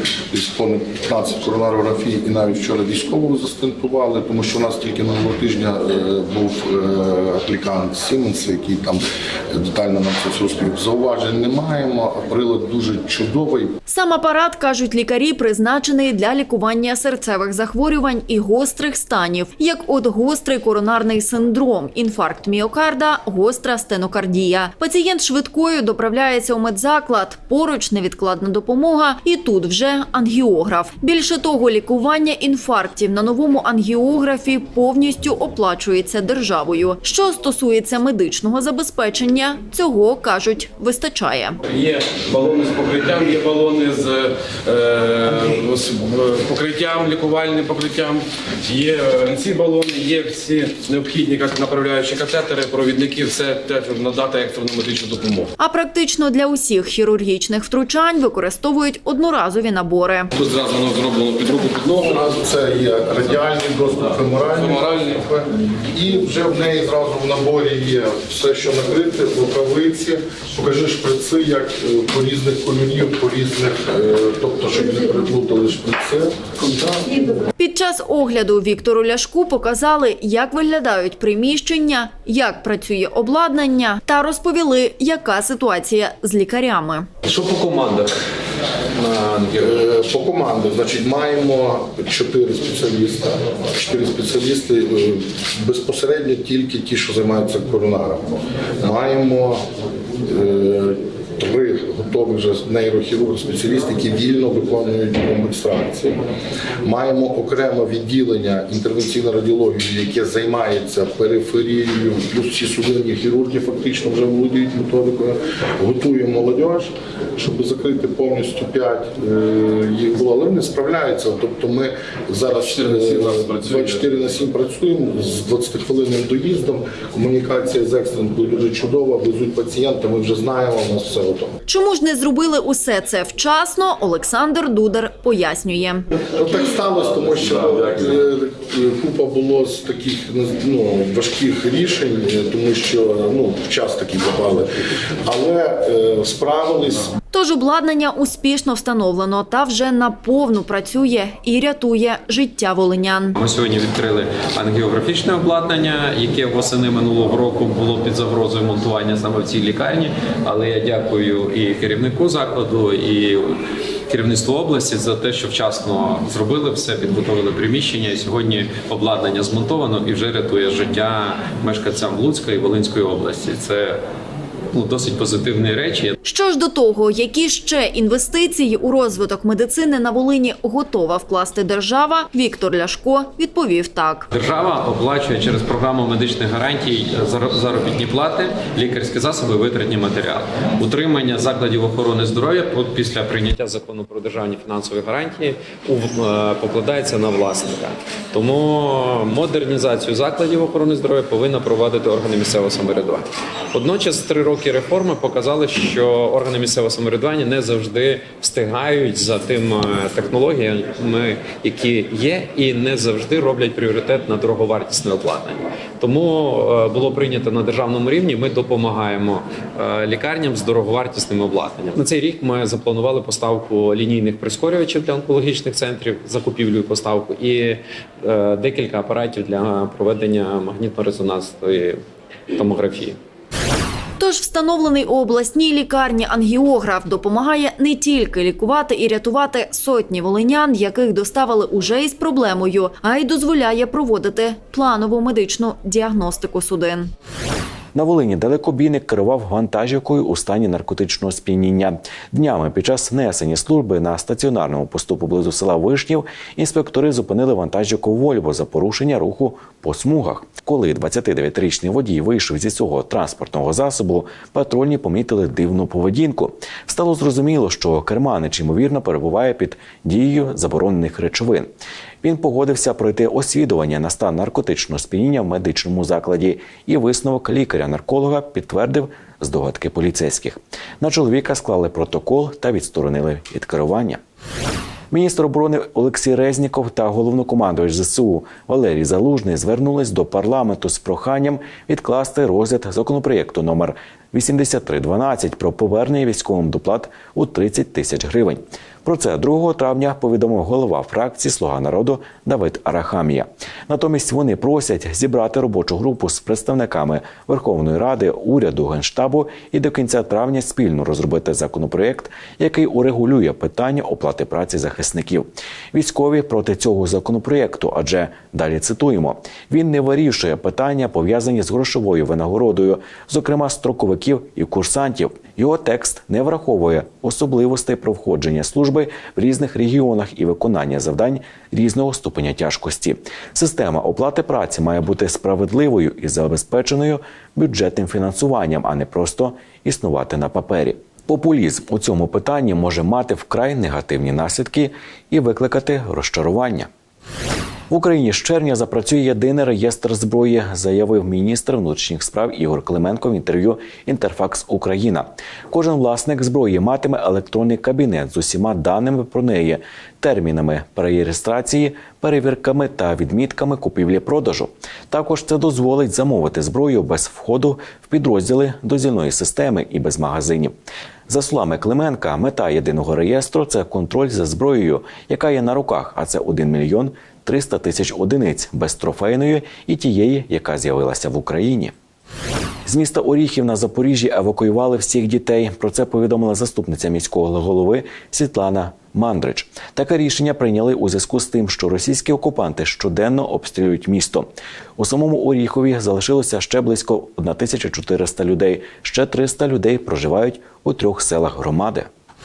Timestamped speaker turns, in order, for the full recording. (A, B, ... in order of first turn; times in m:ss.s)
0:00.3-0:13.8 A
0:13.9-0:41.6 B
0:41.7-0:55.5 C
0:55.6-1:00.3 B
1:00.3-1:02.2 C
1:01.9-1:17.4 A
1:04.4-1:05.3 C
1:17.6-1:27.1 B
1:27.2-1:28.1 C
1:29.0-1:29.8 C
1:29.5-1:38.2 A
1:38.8-1:39.6 A
1:40.2-1:46.2 A
1:46.8-2:11.6 A
2:02.5-2:04.1 C
2:11.7-2:16.1 B
2:16.2-2:27.1 A
2:17.1-2:18.3 C
2:27.3-2:33.4 B
2:33.4-2:54.0 D
2:54.7-2:56.2 D
2:56.2-3:04.3 B
3:04.3-3:52.0 D
3:52.5-3:53.2 D
3:54.2-4:07.1 B
4:07.9-4:31.7 E
4:32.2-4:44.2 E
4:45.1-5:46.9 E
5:47.9-6:10.7 E
6:11.3-6:21.9 E
6:22.8-6:42.1 E